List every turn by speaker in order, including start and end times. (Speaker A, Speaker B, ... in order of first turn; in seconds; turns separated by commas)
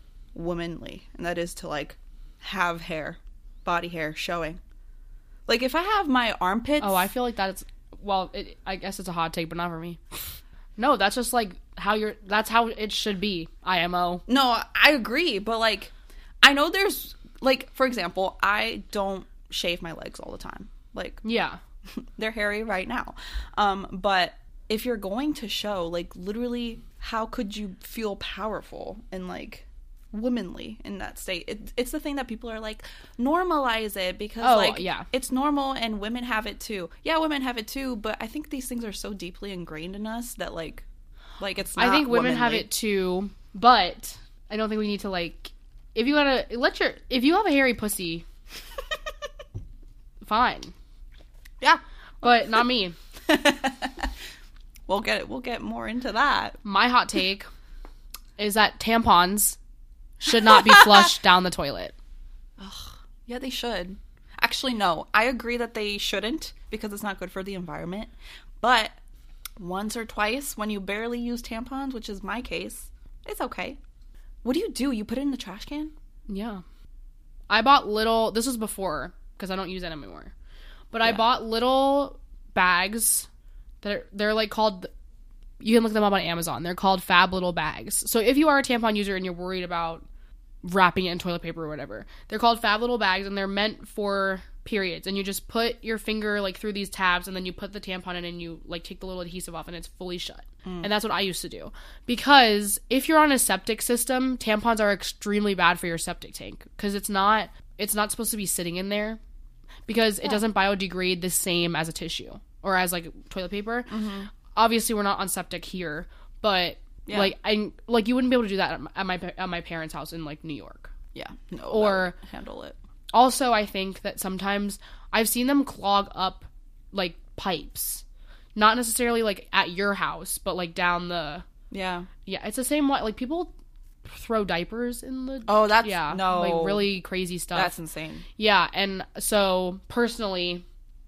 Speaker A: 0.3-4.6, Speaker A: 5.5-7.1, Speaker B: 6.8-10.0, Speaker B: 10.8-14.2, Speaker A: 14.3-21.2, Speaker B: 21.2-21.6, Speaker A: 22.0-40.8, Speaker B: 34.4-35.1, Speaker A: 41.4-42.7, Speaker B: 41.8-48.2, Speaker B: 50.2-50.7, Speaker A: 51.6-52.5, Speaker B: 52.2-53.0, Speaker A: 53.3-54.1, Speaker A: 54.9-56.6, Speaker B: 56.6-57.5, Speaker B: 58.4-59.6, Speaker B: 60.2-61.9, Speaker A: 60.5-61.1, Speaker A: 62.6-69.0, Speaker A: 69.6-73.8, Speaker A: 74.4-75.9, Speaker B: 76.3-76.6, Speaker B: 77.5-80.3, Speaker B: 80.9-83.3, Speaker B: 83.8-84.9, Speaker B: 85.6-90.0, Speaker B: 90.6-109.2, Speaker A: 100.6-100.9, Speaker B: 109.9-114.0, Speaker A: 113.9-114.3, Speaker B: 114.5-120.9, Speaker A: 117.0-117.3, Speaker A: 121.1-122.8, Speaker B: 121.7-122.2, Speaker B: 123.1-128.0, Speaker B: 128.5-131.4, Speaker A: 131.7-132.1, Speaker B: 132.2-133.5, Speaker B: 134.0-137.7, Speaker A: 135.5-136.9, Speaker A: 137.5-138.2, Speaker B: 138.4-140.6